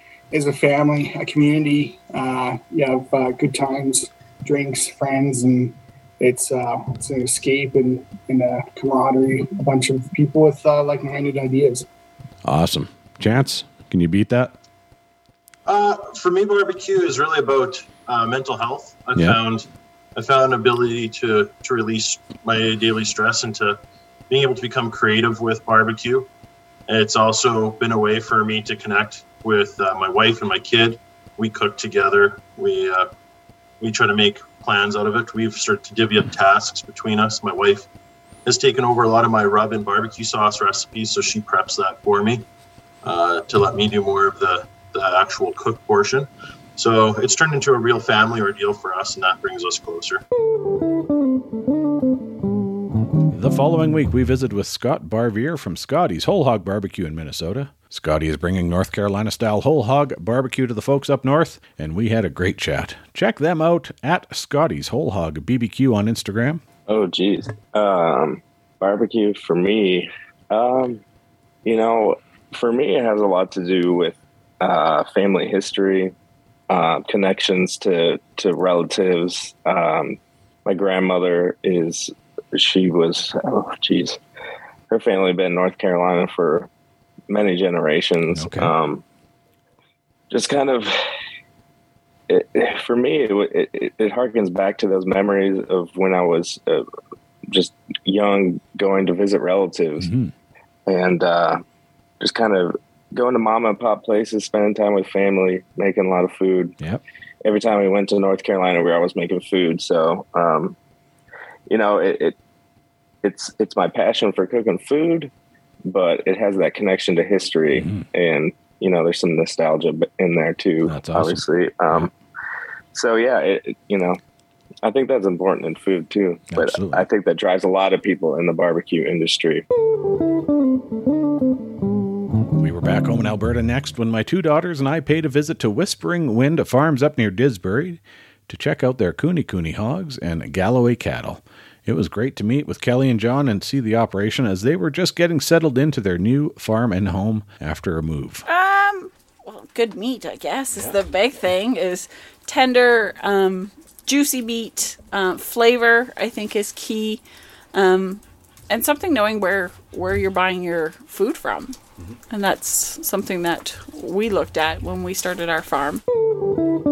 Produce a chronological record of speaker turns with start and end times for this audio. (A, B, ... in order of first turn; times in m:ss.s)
0:00.3-0:11.8 A
0:12.4-0:14.5 B
0:15.7-0:19.6 C
0:20.2-0:23.8 C
0:24.3-0:26.3 C
0:26.9-0:33.1 C
0:33.8-0:37.8 C
0:38.4-0:42.4 C
0:43.0-0:50.2 C
0:53.3-1:06.6 B
1:06.9-1:11.0 D
1:11.6-1:16.1 D
1:16.7-1:24.2 D
1:24.9-1:26.7 D
1:27.3-1:29.0 D
1:28.3-1:28.7 B
1:30.3-1:31.0 D
1:32.3-1:36.8 D
1:37.5-1:40.1 D
1:40.0-1:40.3 B
1:40.9-1:41.6 D
1:42.2-1:46.7 D
1:47.4-1:50.7 D
1:51.7-1:52.4 D
1:53.2-1:55.3 D
1:55.8-2:02.1 D
1:57.7-1:58.0 B
2:00.9-2:02.1 B
2:02.9-2:04.2 D
2:04.8-2:09.6 D
2:06.5-2:07.0 B
2:12.6-2:28.4 B
2:28.4-2:37.2 E
2:37.7-2:41.8 E
2:42.3-2:46.0 E